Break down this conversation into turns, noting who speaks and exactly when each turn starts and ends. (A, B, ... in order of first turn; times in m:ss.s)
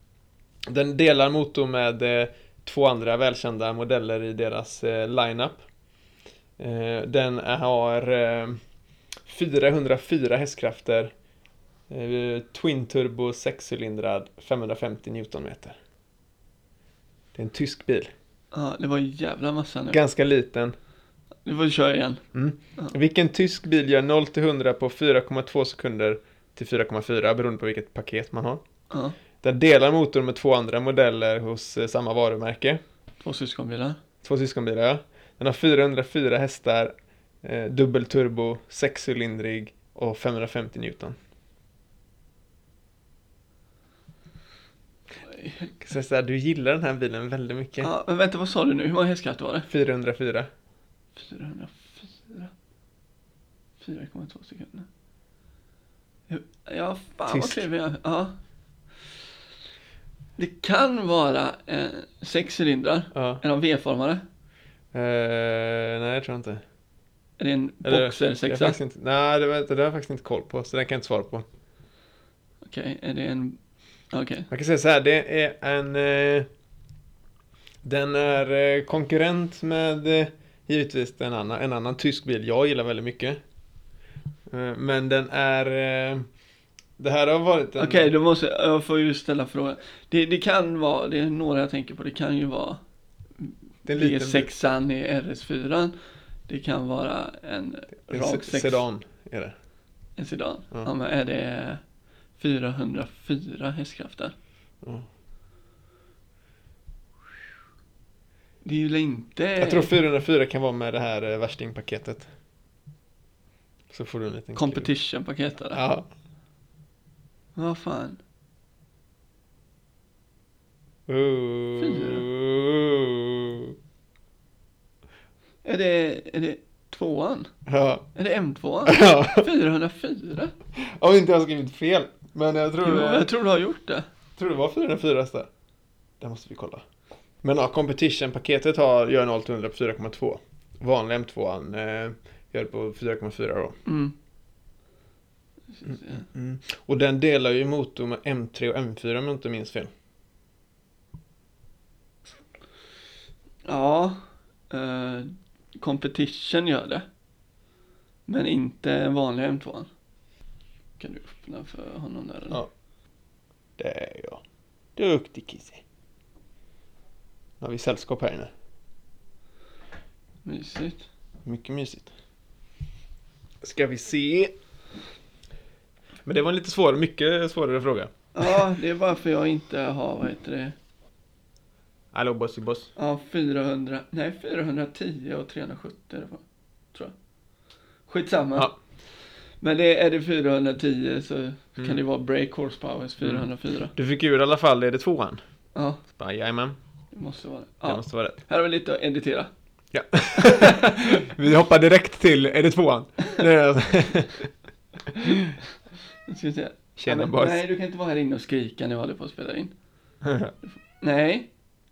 0:00.7-0:05.6 A
0:06.6-0:08.6 A
0:09.2-0:11.1 A
0:11.9-0:15.8 A
0:17.3-0:18.1 A
0:18.5-0:20.0 B
0:19.9-0:20.7 A
0:21.4-0:22.2 B
0:22.3-0:28.6 A
0:28.9-0:29.2 B
0:29.4-0:32.8 A
0:33.2-0:34.0 B
0:34.2-0:41.1 A
0:45.4-0:45.7 B
0:45.7-0:47.9 A
0:47.8-0:49.7 B
0:49.7-0:50.5 A
0:51.2-0:52.5 B
0:53.8-0:54.9 B
0:56.3-0:58.3 B
0:57.3-0:57.7 A
1:00.4-1:04.2 B
1:03.1-1:03.4 A
1:04.9-1:06.6 A
1:07.4-1:08.8 B
1:07.8-1:11.4 A
1:12.6-1:13.6 B
1:14.1-1:14.5 B
1:14.5-1:16.5 A
1:17.8-1:23.4 A
1:24.5-1:26.2 A
1:27.0-1:28.1 A
1:27.8-1:32.8 B
1:33.4-1:35.9 B
1:33.8-1:34.5 A
1:36.5-1:38.8 B
1:38.1-1:39.5 A
1:40.2-1:41.8 B
1:42.4-1:44.3 B
1:44.8-1:45.1 A
1:48.6-1:49.9 B
1:49.6-1:52.3 A
1:53.9-1:54.9 A
1:54.6-1:55.8 B
1:55.7-1:56.1 A
1:57.6-1:58.2 B
2:01.1-2:03.8 A
2:01.8-2:02.2 B
2:05.6-2:07.5 B
2:07.7-2:08.1 A
2:08.1-2:10.5 B
2:08.8-2:09.5 A
2:10.8-2:13.3 A
2:12.8-2:14.0 B
2:14.4-2:15.5 A
2:16.2-2:16.8 A
2:17.4-2:23.8 A
2:23.8-2:24.1 B
2:25.7-2:26.2 B
2:25.9-2:29.9 A
2:33.6-2:37.0 B
2:38.3-2:39.9 B
2:41.0-2:42.6 B
2:43.8-2:44.4 A
2:45.0-2:45.8 A
2:47.6-2:48.5 A
2:50.4-2:51.1 B
2:51.4-2:52.1 A
2:53.6-2:54.5 A
2:56.2-2:58.6 A
2:58.3-3:00.8 B
3:02.1-3:02.9 A
3:03.0-3:06.4 B
3:08.1-3:08.7 B
3:09.6-3:13.9 B
3:13.2-3:15.4 A
3:15.7-3:16.0 B
3:16.1-3:16.8 A
3:17.1-3:19.5 B
3:17.8-3:18.4 A
3:19.9-3:24.5 A
3:20.4-3:21.3 B
3:25.1-3:25.4 B
3:25.1-3:25.6 A
3:26.3-3:29.7 B
3:27.0-3:27.6 A
3:30.2-3:30.5 A
3:31.0-3:31.5 B